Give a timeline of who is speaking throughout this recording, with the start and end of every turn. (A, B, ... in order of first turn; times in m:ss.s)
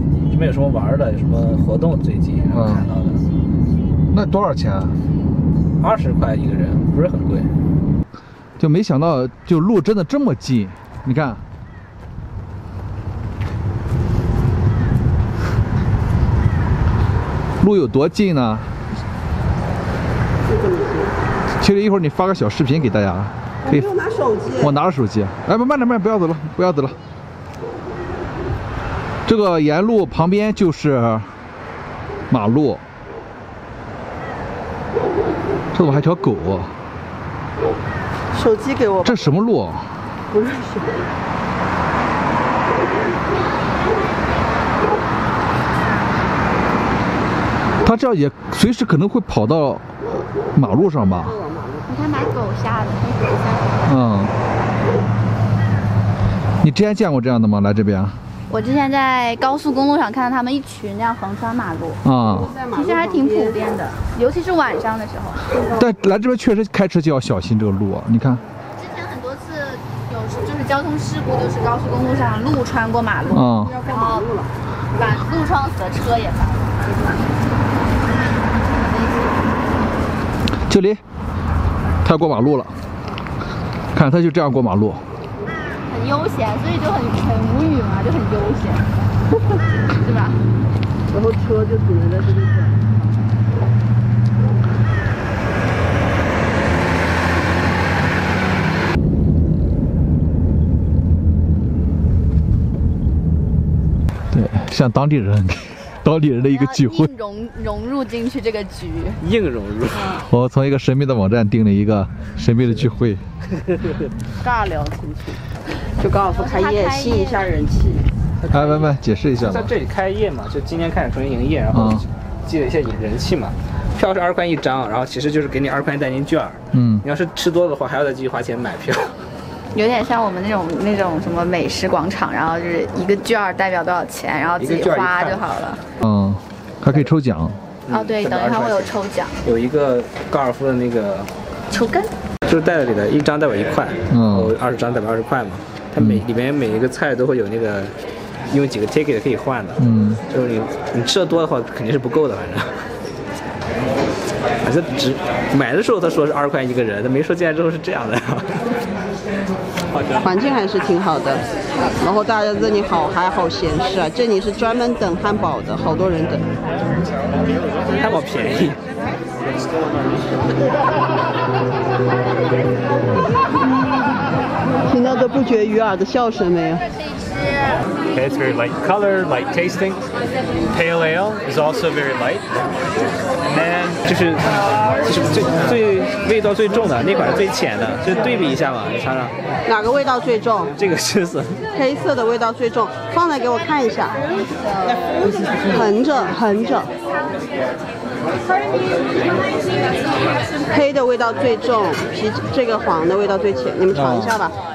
0:00.3-0:03.2 A
0:02.5-0:02.9 B
0:04.1-0:05.0 B
0:05.8-0:07.5 A
0:08.6-0:11.4 B
0:17.6-0:18.7 B
0:20.5-0:21.2 C
0:21.6-0:23.9 B
0:23.6-0:24.8 C
0:24.6-0:27.0 B
0:29.2-0:31.3 B
0:32.3-0:32.8 B
0:35.7-0:36.7 B
0:38.3-0:39.3 C
0:39.0-0:39.9 B
0:40.3-0:41.0 C
0:47.8-0:51.4 B
0:50.6-0:51.9 C
0:51.9-0:53.8 D
0:53.9-0:54.3 B
0:56.6-0:58.2 B
0:58.5-1:02.0 D
1:02.0-1:02.5 B
1:02.3-1:03.6 C
1:02.7-1:05.4 D
1:05.5-1:05.9 C
1:05.7-1:08.4 B
1:08.8-1:14.3 D
1:13.3-1:13.8 B
1:13.5-1:14.5 C
1:14.9-1:16.8 D
1:18.7-1:19.4 D
1:20.7-1:21.0 B
1:22.0-1:22.8 B
1:23.9-1:25.1 B
1:25.9-1:28.9 D
1:29.9-1:30.4 D
1:31.1-1:33.1 C
1:44.3-1:47.1 B
1:46.5-1:49.2 D
1:49.2-1:50.2 A
1:50.0-1:53.2 B
1:54.4-1:55.4 C
1:56.0-1:58.1 C
1:56.3-1:57.4 D
1:58.4-2:09.2 A
1:58.5-1:59.7 B
2:01.7-2:02.0 B
2:06.7-2:07.0 B
2:09.7-2:15.8 D
2:14.6-2:15.5 A
2:16.0-2:17.6 B
2:17.9-2:21.3 A
2:17.9-2:19.4 D
2:21.7-2:22.1 D
2:22.5-2:27.9 A
2:24.1-2:24.6 B
2:28.5-2:32.7 A
2:29.8-2:30.2 B
2:34.6-2:38.6 A
2:40.0-2:40.2 A
2:40.2-2:41.4 C
2:42.0-2:46.4 C
2:47.9-2:48.8 A
2:54.9-2:56.8 C
2:57.3-2:57.7 D
2:58.1-3:00.0 E
3:00.7-3:02.5 E
3:03.5-3:04.0 E
3:04.0-3:09.3 A
3:09.7-3:10.7 C
3:10.8-3:11.6 A
3:11.7-3:14.2 C
3:15.7-3:16.9 C
3:20.7-3:24.6 C
3:23.9-3:24.4 B